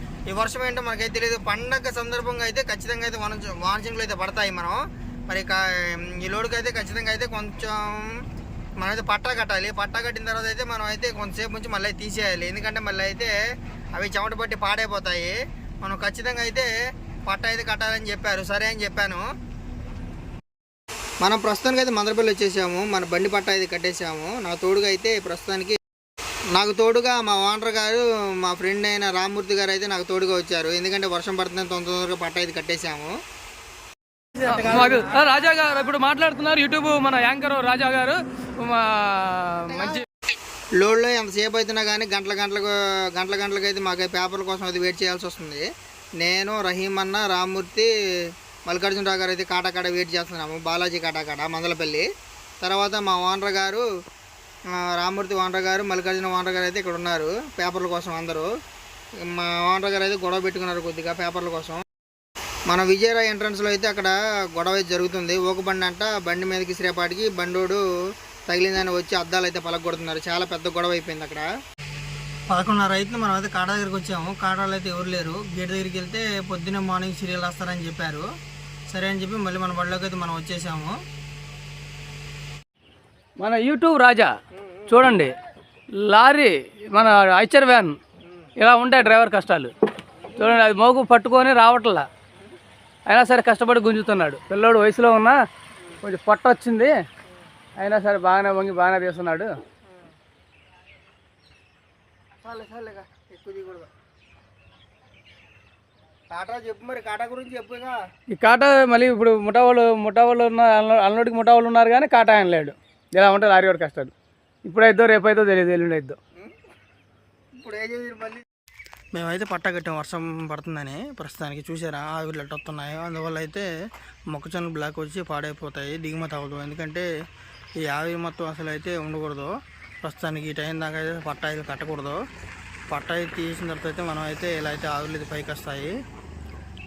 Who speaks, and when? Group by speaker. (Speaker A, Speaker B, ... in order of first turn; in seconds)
Speaker A: 0.3-8.2, 8.8-13.3, 13.9-16.7, 17.3-19.3, 21.2-25.8, 26.5-33.1, 34.4-35.0, 40.8-45.6, 46.2-47.9, 48.7-52.0, 52.6-53.8, 54.7-58.5, 59.2-61.8, 62.7-67.8, 68.5-71.5, 72.5-78.3, 78.9-81.0, 102.4-103.9, 106.3-108.0, 117.6-118.4, 119.1-123.7, 124.3-127.1, 127.8-129.5, 130.0-132.2, 132.9-135.9
Speaker B: 34.4-40.1, 83.4-84.3, 84.9-85.3, 86.0-88.0, 88.5-89.7, 90.3-92.1, 93.1-95.4, 96.0-97.0, 97.8-99.5, 108.3-114.1, 114.7-116.2